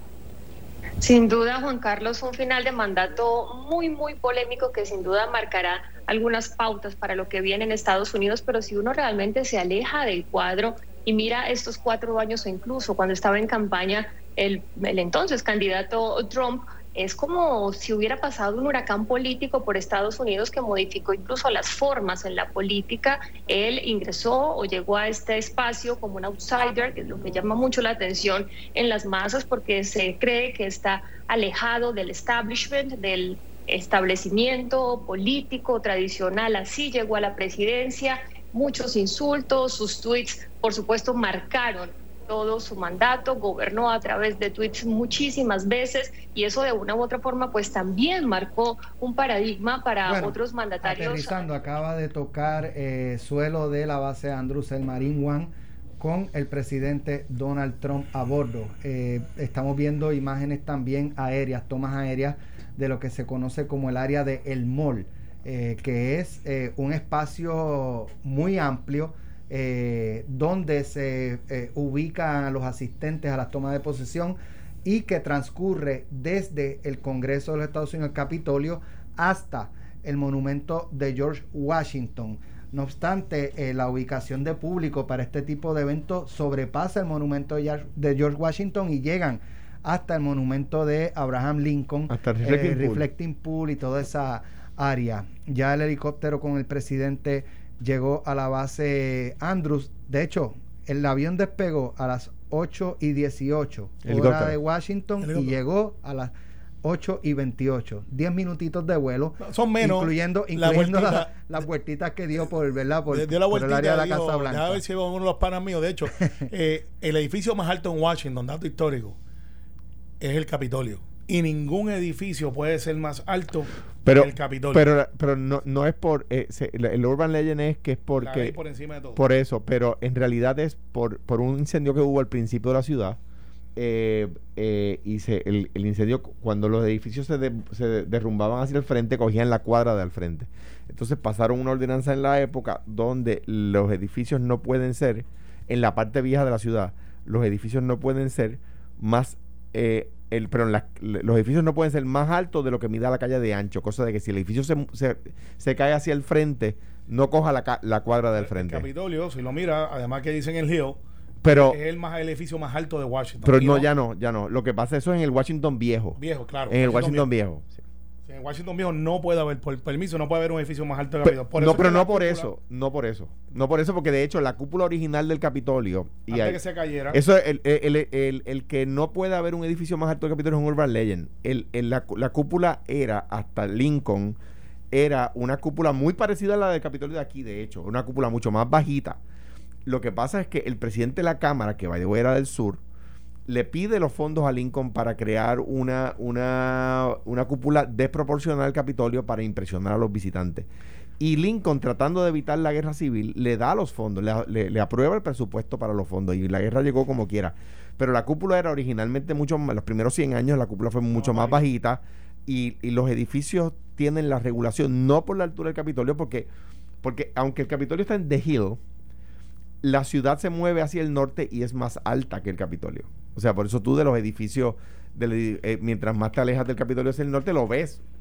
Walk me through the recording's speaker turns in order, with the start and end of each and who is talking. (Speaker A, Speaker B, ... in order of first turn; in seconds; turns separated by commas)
Speaker A: 1.0-51.7, Speaker B: 50.0-114.8, Speaker C: 92.1-93.0, Speaker C: 104.0-104.6, Speaker D: 105.2-105.5, Speaker D: 109.4-111.5, Speaker D: 113.1-119.2, Speaker D: 120.2-124.8, Speaker C: 124.0-128.6, Speaker D: 128.2-129.2, Speaker C: 129.1-133.2, Speaker C: 133.8-158.9, Speaker D: 158.3-163.9, Speaker C: 161.4-161.8, Speaker C: 163.4-167.8, Speaker D: 166.2-167.3, Speaker D: 168.2-172.5, Speaker C: 171.2-176.6, Speaker D: 176.3-177.2, Speaker C: 177.1-184.4, Speaker C: 184.9-189.2, Speaker C: 189.8-192.8, Speaker C: 193.5-200.7, Speaker C: 201.2-216.5, Speaker D: 211.1-211.6, Speaker C: 217.0-218.8, Speaker C: 219.8-228.0